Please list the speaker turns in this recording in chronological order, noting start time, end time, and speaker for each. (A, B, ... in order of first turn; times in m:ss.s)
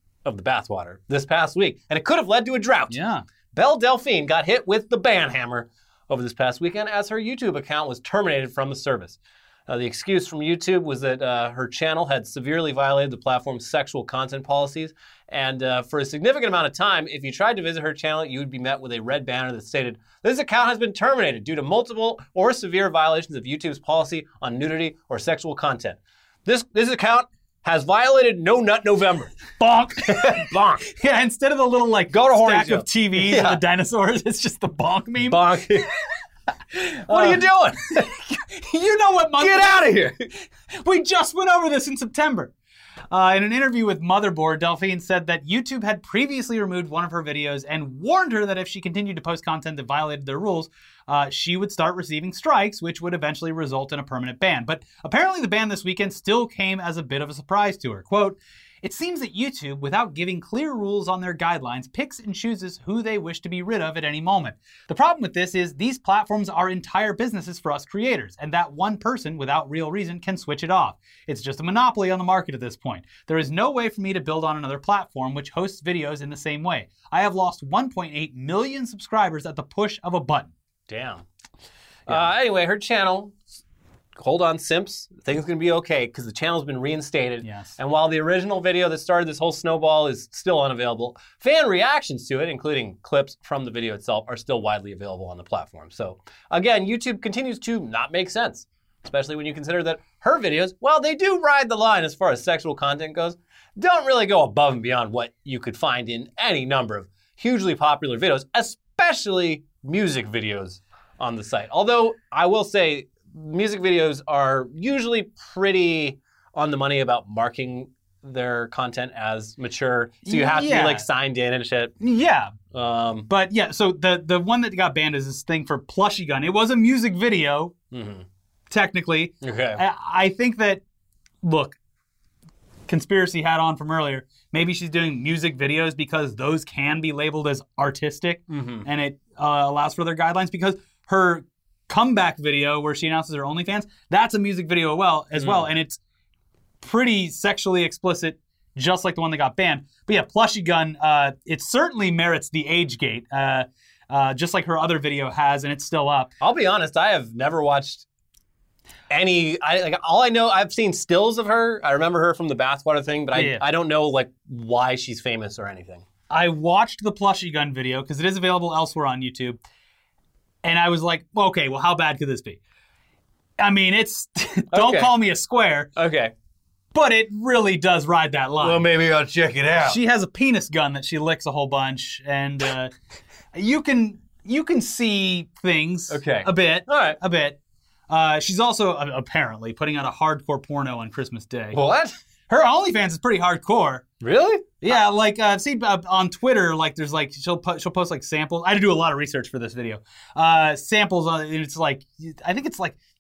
0:00.2-0:03.0 A
0:02.9-0:03.2 B
0:03.5-0:29.4 A
0:29.6-0:35.9 B
0:30.0-0:30.8 A
0:32.1-0:33.6 A
0:35.3-0:35.8 A
0:36.7-0:40.0 B
0:37.1-0:38.1 A
0:39.4-0:40.2 A
0:40.7-0:42.5 B
0:43.1-1:20.5 B
1:20.9-1:21.2 A
1:22.1-1:23.4 A
1:24.2-2:01.9 A
1:27.4-1:27.7 B
2:00.2-2:01.0 B
2:02.0-2:02.5 B
2:02.7-2:03.3 A
2:03.3-2:07.7 B
2:07.9-2:08.2 A
2:08.7-2:10.8 B
2:09.4-2:09.8 A
2:11.4-2:11.8 B
2:12.9-2:26.0 B
2:18.5-2:18.9 A
2:25.4-2:25.7 A
2:26.8-2:36.3 B
2:36.4-2:38.0 A
2:39.1-2:46.0 A
2:43.3-2:43.6 B
2:46.3-2:49.6 B
2:50.6-2:52.6 B
2:53.6-2:55.9 B
2:54.7-2:55.1 A
2:56.0-2:56.3 A
2:56.9-2:58.8 B
2:58.6-3:00.0 A
2:59.8-3:02.9 B
3:03.5-3:07.6 B
3:06.1-3:07.2 A
3:08.1-3:11.8 B
3:11.7-3:12.2 A
3:12.5-3:14.1 B
3:14.2-3:14.9 A
3:14.8-3:23.0 B